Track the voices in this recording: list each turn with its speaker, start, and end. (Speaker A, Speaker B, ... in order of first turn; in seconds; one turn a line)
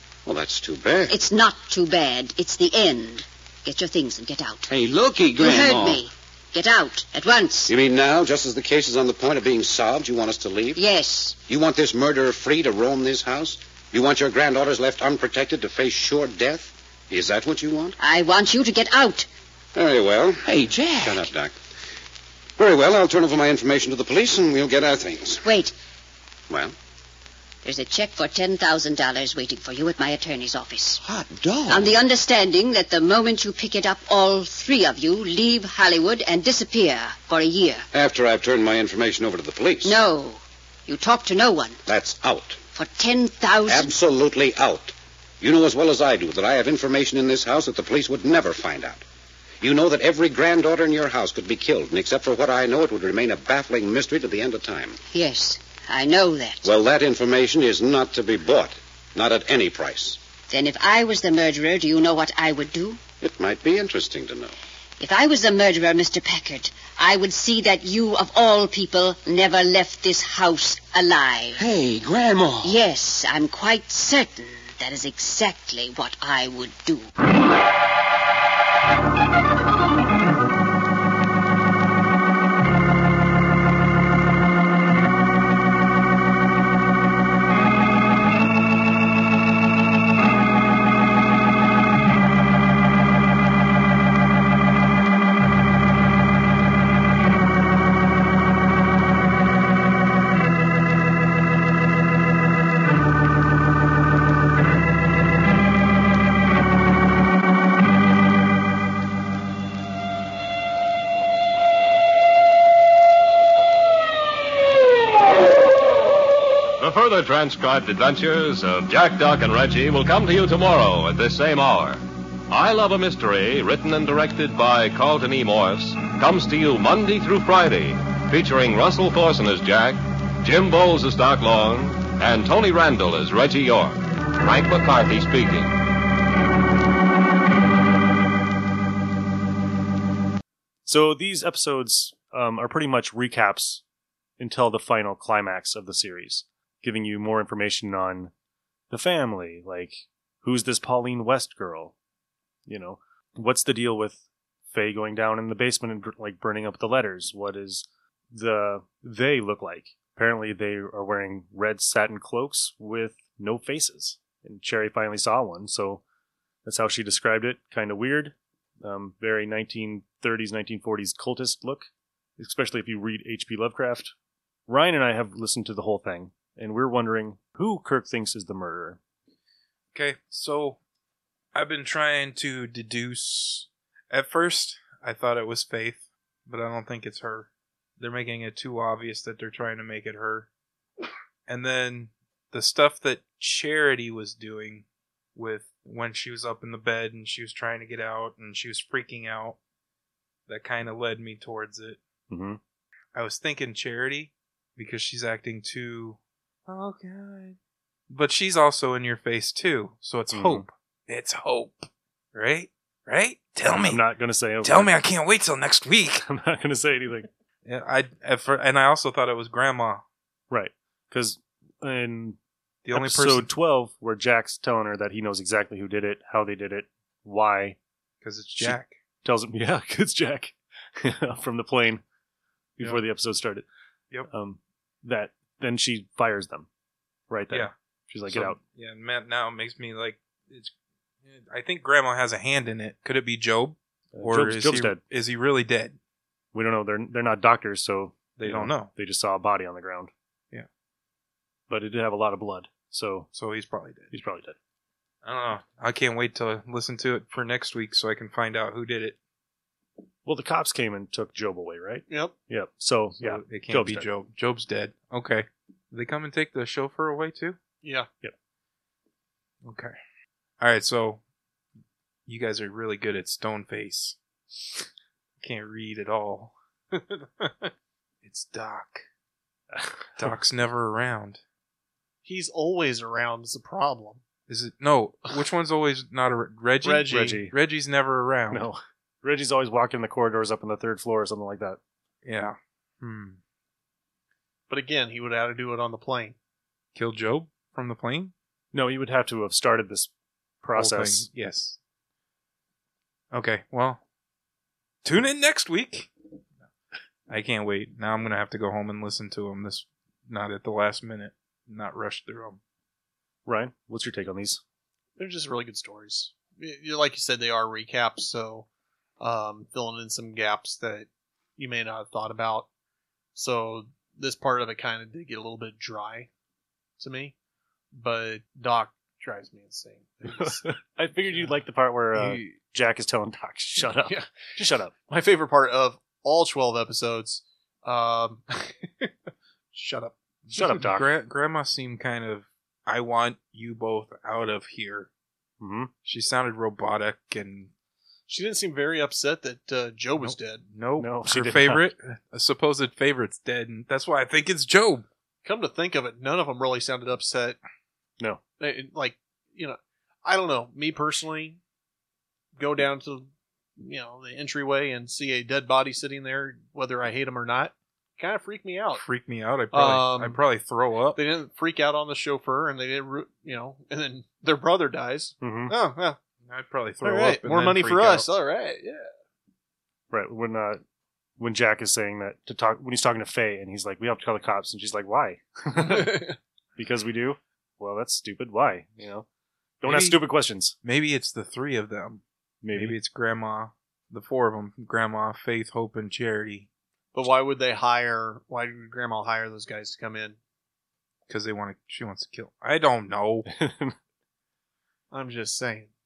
Speaker A: 0.2-1.2
Speaker B: 1.1-4.7
Speaker C: 4.7-6.0
Speaker B: 5.4-7.7
Speaker A: 7.7-10.8
Speaker B: 10.8-11.4
Speaker A: 11.4-18.0
Speaker B: 18.0-19.3
Speaker A: 19.7-21.6
Speaker C: 20.4-21.3
Speaker A: 22.6-25.5
Speaker B: 25.4-25.7
Speaker A: 26.5-26.7
Speaker B: 27.6-31.0
Speaker C: 31.0-31.9
Speaker B: 31.7-37.9
Speaker A: 37.9-40.0
Speaker B: 39.8-41.8
Speaker A: 41.9-42.6
Speaker B: 42.7-43.9
Speaker A: 43.7-49.0
Speaker A: 49.6-55.0
Speaker B: 55.1-56.7
Speaker A: 56.6-60.2
Speaker B: 60.5-63.0
Speaker A: 63.2-64.5
Speaker B: 65.0-71.7
Speaker C: 71.6-72.8
Speaker B: 72.6-77.1
Speaker D: 116.8-135.7
Speaker E: 140.8-143.8
Speaker E: 144.4-148.3
Speaker E: 148.9-151.9
Speaker E: 152.7-166.0
Speaker E: 166.6-174.1
Speaker E: 174.7-179.0
Speaker F: 179.9-180.8
Speaker F: 181.5-190.5
Speaker F: 191.5-199.6
Speaker F: 200.5-202.0
Speaker E: 202.3-202.6
Speaker F: 203.1-207.6
Speaker F: 208.1-214.1
Speaker E: 210.3-210.7
Speaker E: 213.7-215.0
Speaker F: 214.6-216.2
Speaker E: 216.2-217.3
Speaker F: 217.6-220.0
Speaker E: 220.5-222.4
Speaker F: 222.8-223.5
Speaker E: 222.9-227.8
Speaker F: 228.2-229.0
Speaker E: 228.6-232.0
Speaker E: 232.8-233.7
Speaker E: 234.3-236.7
Speaker E: 237.3-238.6
Speaker F: 238.3-240.7
Speaker F: 241.2-246.0
Speaker E: 244.1-245.0
Speaker E: 246.5-250.1
Speaker F: 248.3-248.9
Speaker E: 251.7-253.3
Speaker F: 253.3-254.2
Speaker E: 254.1-254.6
Speaker F: 255.2-259.2
Speaker E: 260.2-264.1
Speaker G: 262.1-262.4
Speaker F: 263.2-267.6
Speaker G: 267.8-268.1
Speaker F: 269.6-269.9
Speaker F: 270.6-271.2
Speaker F: 272.3-274.1
Speaker F: 275.4-277.7
Speaker F: 278.2-279.0
Speaker E: 279.7-280.3
Speaker F: 280.2-281.4
Speaker G: 282.2-284.2
Speaker F: 284.5-288.7
Speaker E: 286.9-287.6
Speaker E: 288.5-291.8
Speaker F: 292.2-293.4
Speaker G: 294.7-296.4
Speaker F: 296.9-298.3
Speaker E: 298.7-300.1
Speaker E: 300.6-301.3
Speaker F: 300.7-301.8
Speaker F: 303.3-304.0
Speaker F: 305.0-306.1
Speaker F: 307.3-312.6
Speaker E: 313.4-314.6
Speaker G: 315.2-318.7
Speaker G: 319.2-322.7
Speaker G: 323.3-326.3
Speaker G: 327.0-327.3
Speaker G: 327.9-330.6
Speaker E: 330.3-334.9
Speaker G: 333.8-334.4
Speaker G: 335.1-339.1
Speaker G: 339.7-340.1
Speaker F: 340.5-345.1
Speaker E: 340.5-341.1
Speaker E: 345.6-345.9
Speaker F: 346.0-347.7
Speaker G: 348.3-350.6
Speaker F: 350.2-355.1
Speaker E: 350.9-351.9
Speaker G: 355.4-357.6
Speaker G: 358.6-361.6
Speaker G: 362.6-369.0
Speaker F: 368.9-371.2
Speaker G: 369.7-370.4
Speaker G: 371.1-376.2
Speaker E: 375.4-375.7
Speaker F: 376.4-378.3
Speaker G: 377.0-379.1
Speaker E: 380.1-380.8
Speaker E: 381.4-389.3
Speaker G: 385.9-386.3
Speaker E: 389.8-390.8
Speaker F: 389.8-390.3
Speaker F: 390.8-396.7
Speaker E: 392.6-393.0
Speaker G: 397.1-400.4
Speaker F: 401.3-403.5
Speaker E: 403.5-403.9
Speaker G: 405.1-405.9